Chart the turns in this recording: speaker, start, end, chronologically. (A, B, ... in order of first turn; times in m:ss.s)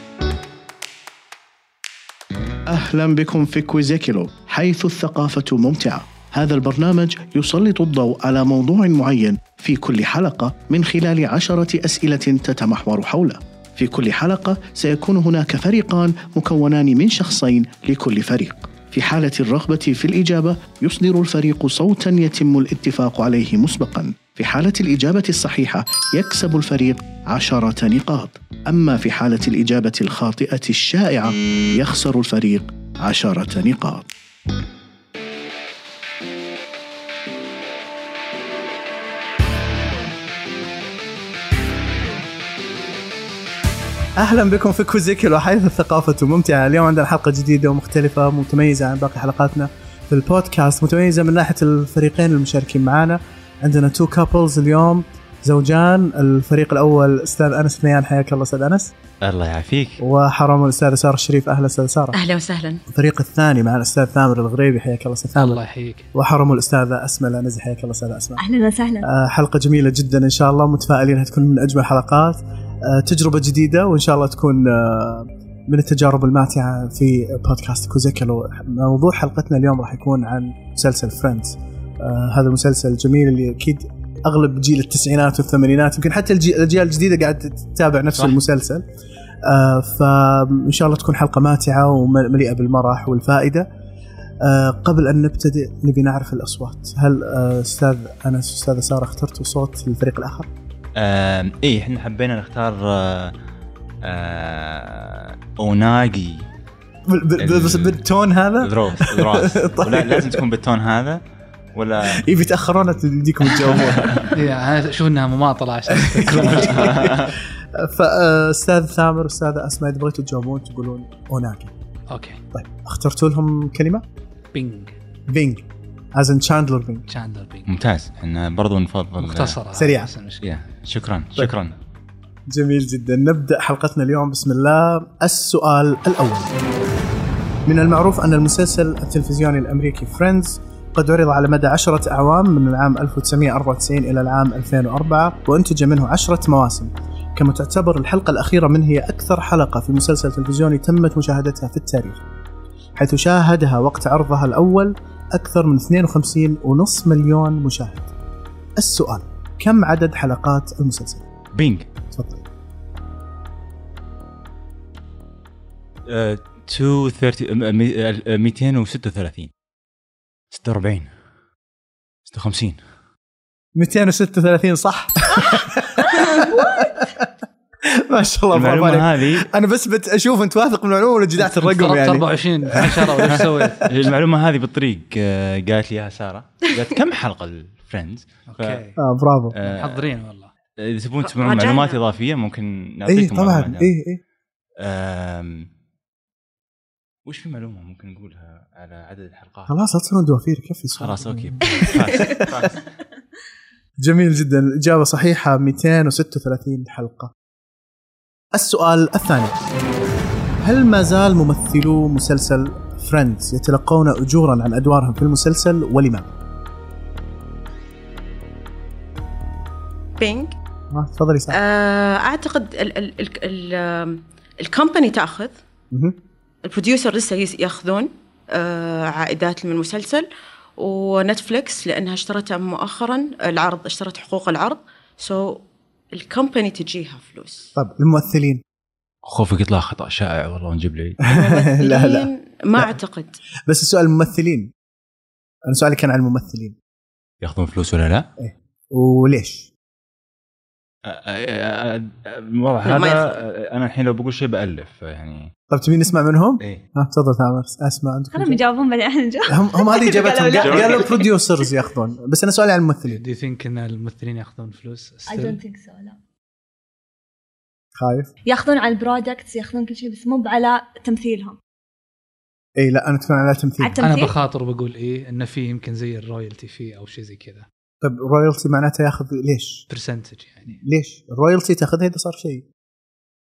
0:02.7-0:34.0 A
0:44.2-0:58.9 B
0:59.2-1:00.0 C
1:00.0-1:02.2 B
1:02.1-1:02.8 D
1:02.9-1:05.6 B
1:05.3-1:06.1 E
1:06.1-1:08.4 B
1:08.4-1:09.1 F
1:09.0-1:28.8 B
1:28.1-1:28.4 C
1:29.4-1:33.7 B
1:34.4-1:40.5 B
1:41.0-1:43.3 C
1:44.0-1:46.4 C
1:47.0-1:50.4 B
1:47.4-1:48.0 C
1:48.6-1:51.2 C
1:51.7-1:54.3 C
1:52.0-1:54.2 B
1:54.3-1:57.1 E
1:55.9-2:01.7 B
1:56.3-1:57.3 C
2:02.1-2:02.4 E
2:02.5-2:04.0 B
2:04.5-2:05.0 E
2:05.3-2:07.1 B
2:07.1-2:07.7 E
2:07.7-2:09.6 C
2:09.2-2:10.5 E
2:09.7-2:10.1 B
2:10.4-2:11.8 C
2:12.5-2:16.5 B
2:17.6-2:32.2 B
2:33.0-2:38.1 B
2:38.8-2:41.2 B
2:41.5-2:41.9 C
2:42.1-2:42.4 B
2:46.0-2:49.5 C
2:50.5-2:51.1 C
2:52.3-2:52.8 C
2:53.7-2:57.0 B
2:56.0-2:57.1 F
2:57.8-3:03.8 B
2:58.5-2:59.5 C
3:01.4-3:03.9 E
3:03.4-3:08.8 C
3:08.5-3:09.0 E
3:09.0-3:09.6 B
3:09.5-3:10.0 C
3:09.6-3:10.5 E
3:10.8-3:13.9 C
3:11.2-3:12.0 D
3:13.0-3:14.2 B
3:14.8-3:15.7 C
3:17.2-3:19.7 C
3:19.7-3:22.5 B
3:21.0-3:22.8 C
3:24.0-3:27.3 B
3:28.5-3:29.6 B
3:30.6-3:36.3 B
3:40.2-3:40.5 D
3:40.9-3:41.6 B
3:41.5-3:45.6 D
3:45.9-3:46.2 B
3:46.6-3:57.7 D
3:57.8-3:58.6 B
3:59.2-4:01.2 C
4:01.2-4:03.0 B
4:01.3-4:03.4 D
4:03.6-4:04.7 B
4:05.6-4:06.8 B
4:07.4-4:08.3 C
4:08.4-4:09.7 B
4:11.0-4:15.5 C
4:12.8-4:13.4 D
4:15.7-4:18.6 B
4:18.3-4:21.3 F
4:19.5-4:23.2 B
4:20.6-4:21.1 C
4:23.1-4:25.6 E
4:25.3-4:26.2 F
4:28.0-4:28.3 B
4:28.4-4:31.6 F
4:32.8-4:34.0 B
4:33.8-4:34.3 F
4:34.0-4:37.7 E
4:38.0-4:39.9 B
4:39.9-4:40.8 E
4:40.8-4:42.6 B